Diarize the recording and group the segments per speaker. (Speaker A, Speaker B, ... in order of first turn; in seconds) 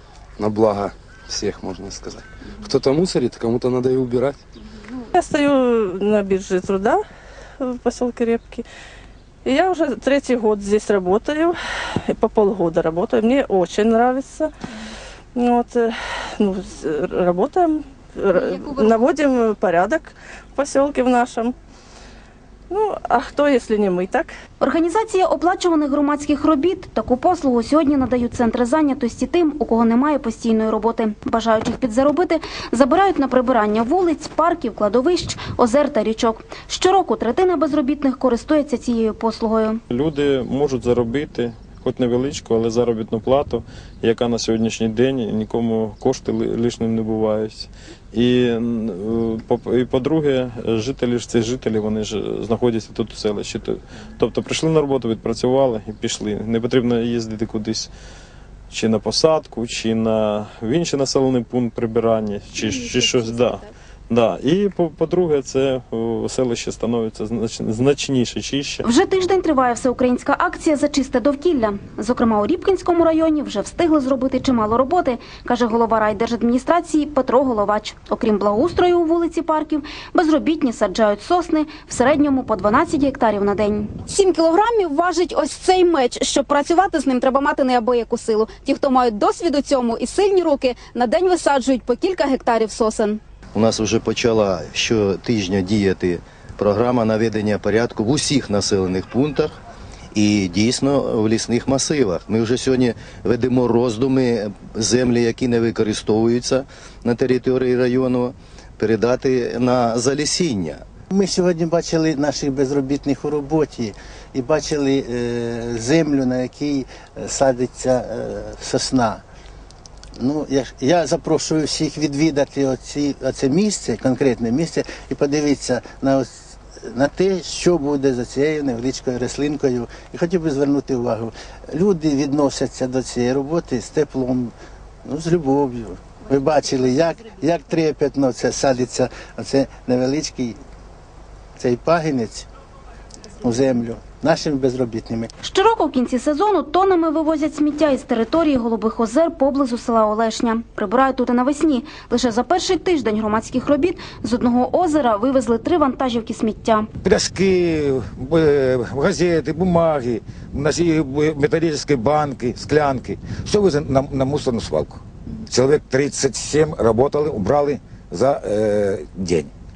Speaker A: 0.4-4.4
Speaker B: 5.1-7.0, 7.6-8.6, 9.4-14.5, 15.3-21.6, 22.7-24.3
Speaker C: 24.6-39.8, 68.8-84.1, 145.4-156.9
Speaker D: 39.9-57.9, 58.7-68.8
Speaker E: 84.1-93.2
Speaker F: 93.5-99.5, 100.1-110.8
Speaker G: 111.1-119.2, 120.2-140.6, 141.6-142.5, 143.4-145.3
Speaker H: 157.0-169.5